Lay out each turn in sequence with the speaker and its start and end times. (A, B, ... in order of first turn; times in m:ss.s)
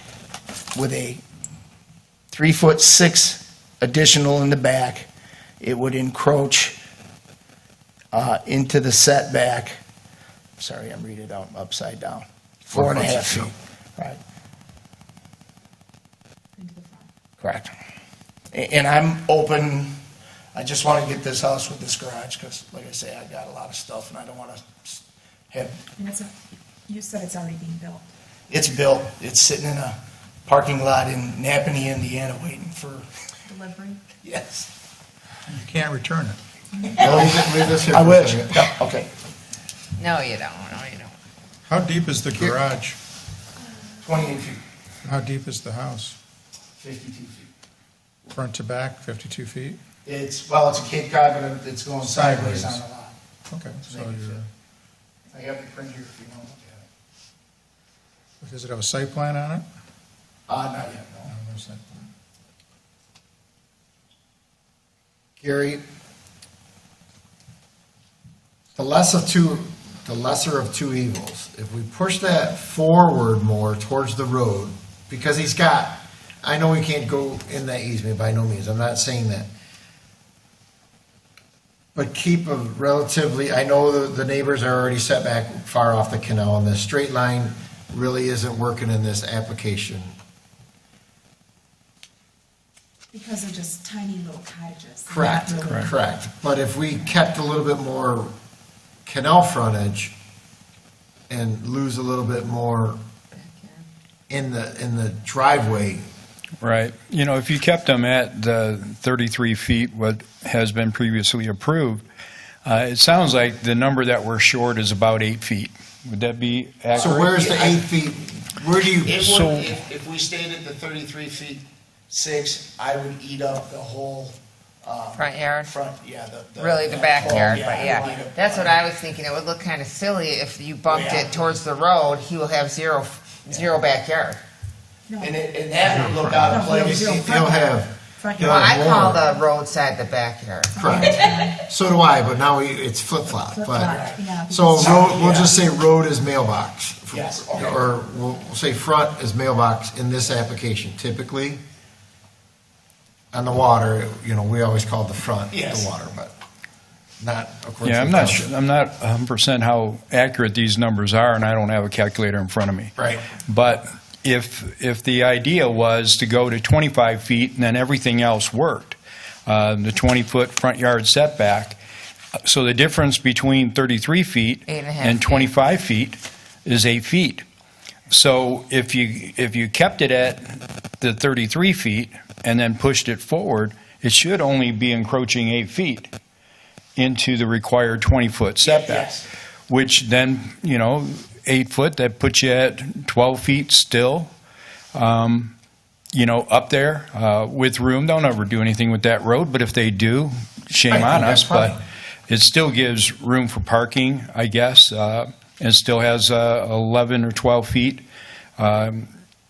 0:00.7-0:01.2 A
0:02.3-0:05.1 A
0:05.6-0:06.8 A
0:08.1-0:09.8 A
0:10.6-0:14.2 A
0:12.7-0:13.5 B
0:16.6-0:17.1 C
0:17.4-0:17.7 A
0:18.5-0:19.9 A
0:20.5-0:25.8 A
0:26.0-0:26.4 C
0:26.9-0:28.0 C
0:28.5-0:33.1 A
0:33.5-0:34.0 C
0:34.2-0:34.7 A
0:35.5-0:36.4 D
0:36.9-0:39.1 A
0:37.0-0:38.7 B
0:40.0-0:41.2 E
0:41.6-0:43.0 D
0:44.0-0:44.6 A
0:45.0-0:46.2 D
0:46.8-0:47.5 A
0:48.3-0:49.8 D
0:50.0-0:53.2 A
0:52.0-0:52.8 D
0:53.5-0:54.5 D
0:53.8-0:54.4 A
0:55.3-0:56.9 A
0:58.4-0:59.6 D
1:00.5-1:01.3 A
1:01.3-1:02.0 D
1:05.4-1:05.8 B
1:08.8-1:19.5 B
1:21.9-1:30.1 B
1:33.1-1:35.9 C
1:35.0-1:38.3 B
1:39.0-1:40.1 B
1:41.3-1:43.0 B
1:43.3-1:43.8 E
1:44.3-1:46.0 B
1:46.6-1:52.0 F
1:52.6-1:57.3 F
1:56.9-1:57.8 A
1:56.9-1:59.3 B
1:59.0-2:08.8 A
1:59.3-1:59.7 F
2:05.1-2:05.7 E
2:06.6-2:14.4 E
2:07.5-2:08.1 C
2:10.9-2:11.6 A
2:15.1-2:15.4 C
2:15.2-2:17.4 A
2:16.2-2:19.2 B
2:16.4-2:19.2 C
2:18.4-2:21.1 E
2:20.7-2:21.6 C
2:20.8-2:31.6 B
2:23.5-2:25.0 C
2:23.8-2:25.5 A
2:27.1-2:27.8 A
2:33.3-2:36.3 B
2:35.5-2:35.9 A
2:37.2-2:38.5 B
2:37.8-2:51.8 F
2:52.4-2:57.4 F
2:54.7-2:55.5 E
2:58.1-3:06.1 F
3:07.0-3:09.1 F
3:08.6-3:09.2 A
3:09.7-3:14.3 F
3:14.9-3:15.5 F
3:16.1-3:28.0 F
3:20.9-3:21.8 B
3:28.6-3:29.1 F